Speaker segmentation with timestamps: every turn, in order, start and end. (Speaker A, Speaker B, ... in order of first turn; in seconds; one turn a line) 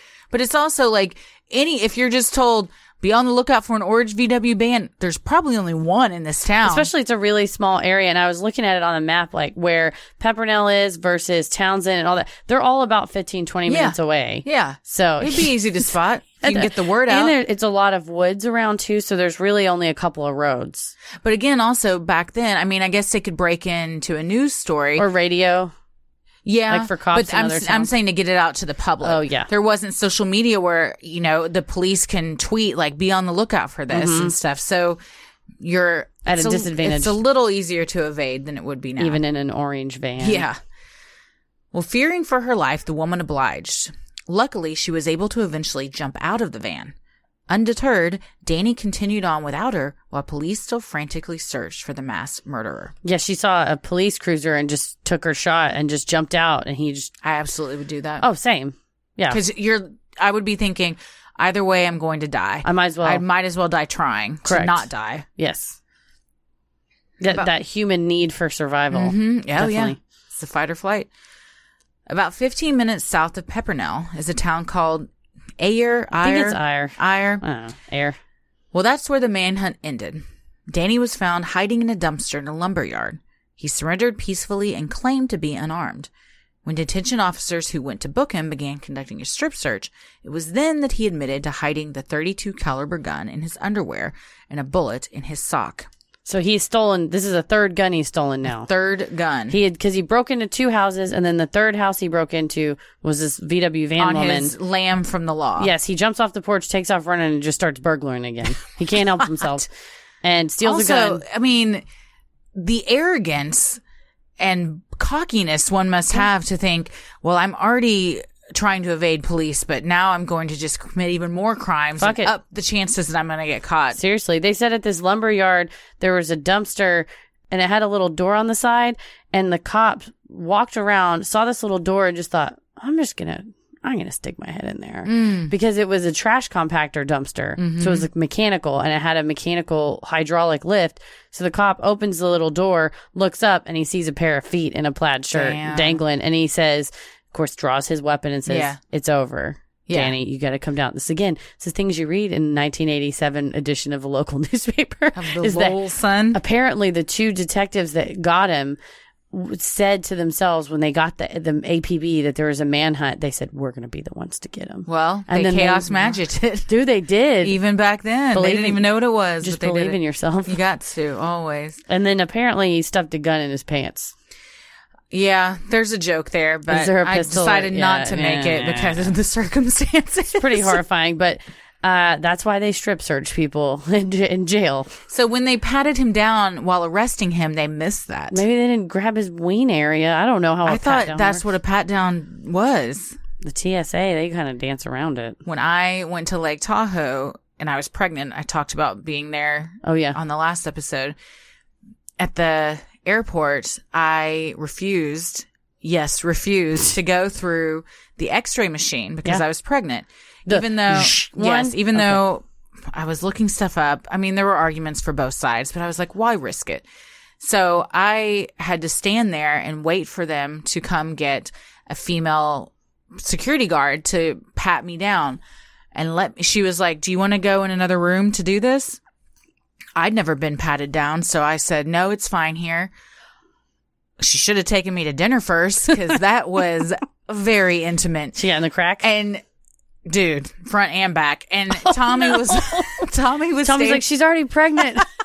Speaker A: 0.3-6.9
Speaker B: 6.6-15.5
Speaker A: 13.7-17.4
Speaker B: 16.4-20.9
Speaker A: 21.2-25.1
Speaker B: 25.0-25.7
Speaker A: 26.4-35.0
Speaker B: 26.7-27.9
Speaker B: 29.0-29.5
Speaker B: 33.9-34.3
Speaker A: 35.6-39.2
Speaker B: 36.2-37.1
Speaker B: 39.0-40.5
Speaker A: 40.2-40.6
Speaker A: 41.7-46.9
Speaker A: 47.5-52.9
Speaker B: 53.0-57.1
Speaker A: 57.2-58.2
Speaker B: 58.2-59.4
Speaker A: 59.3-65.2
Speaker B: 62.6-63.2
Speaker B: 64.4-65.8
Speaker B: 67.2-70.0
Speaker A: 68.9-71.1
Speaker A: 72.1-75.1
Speaker A: 75.6-77.4
Speaker B: 76.2-78.2
Speaker A: 78.7-86.1
Speaker A: 86.6-95.9
Speaker B: 96.2-98.7
Speaker A: 98.5-99.6
Speaker B: 99.5-104.5
Speaker A: 104.0-105.7
Speaker B: 105.6-109.7
Speaker A: 109.2-109.6
Speaker B: 110.2-111.2
Speaker A: 110.6-111.8
Speaker A: 112.5-113.8
Speaker A: 114.4-124.0
Speaker B: 122.0-122.3
Speaker B: 123.9-155.8
Speaker A: 135.1-135.5
Speaker A: 137.6-138.1
Speaker A: 145.3-146.0
Speaker A: 148.5-148.8
Speaker A: 149.9-150.1
Speaker A: 155.2-156.4
Speaker B: 156.3-158.8
Speaker B: 159.3-167.5
Speaker A: 164.9-166.7
Speaker A: 167.4-171.8
Speaker B: 168.3-168.8
Speaker B: 169.4-170.6
Speaker B: 171.9-174.1
Speaker A: 175.1-180.8
Speaker B: 176.7-179.1
Speaker B: 180.4-184.9
Speaker A: 185.1-188.4
Speaker B: 188.3-191.4
Speaker A: 190.7-193.2
Speaker B: 193.4-195.4
Speaker A: 195.4-201.1
Speaker B: 199.8-200.2
Speaker A: 202.2-216.8
Speaker B: 210.5-212.2
Speaker A: 217.4-225.4
Speaker A: 225.9-229.0
Speaker A: 229.9-232.9
Speaker A: 234.2-238.4
Speaker B: 238.3-239.1
Speaker A: 239.0-239.4
Speaker A: 240.1-244.1
Speaker B: 241.8-242.9
Speaker B: 243.6-245.1